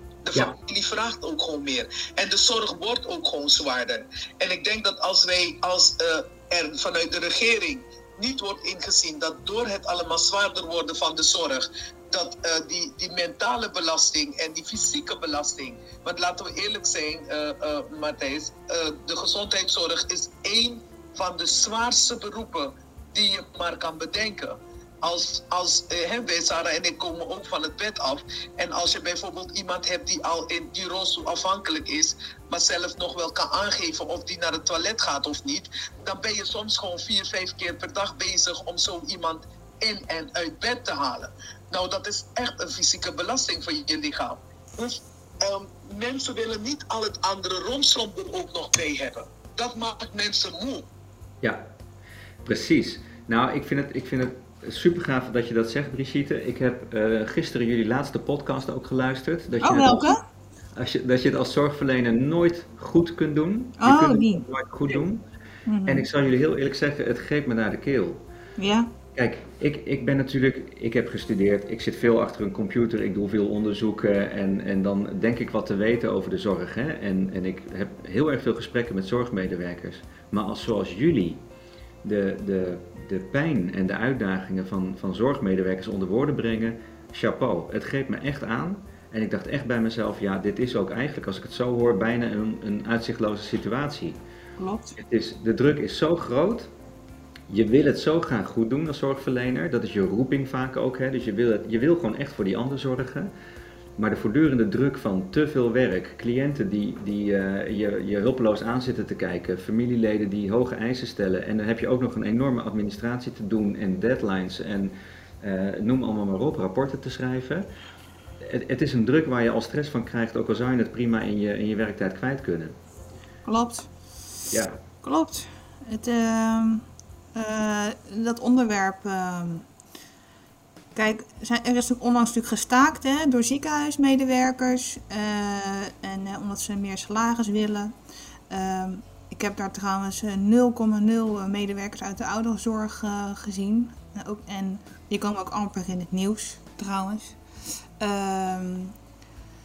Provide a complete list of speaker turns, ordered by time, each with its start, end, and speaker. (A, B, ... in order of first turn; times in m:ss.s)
0:00.2-0:50.9 A
0:52.4-1:00.2 B
0:59.6-1:00.2 C
1:00.8-1:05.2 B
1:03.8-1:04.4 C
1:05.6-1:06.0 C
1:05.8-1:08.2 B
1:08.6-1:08.9 C
1:09.1-1:21.4 B
1:22.0-1:34.2 B
1:34.6-1:35.0 C
1:35.0-1:36.7 B
1:37.5-1:43.3 B
1:44.0-1:57.7 B
1:58.4-2:02.8 B
2:03.4-2:03.9 C
2:04.5-2:04.8 B
2:05.0-2:09.6 C
2:10.9-2:17.9 C
2:18.5-2:27.4 C
2:28.0-2:28.9 C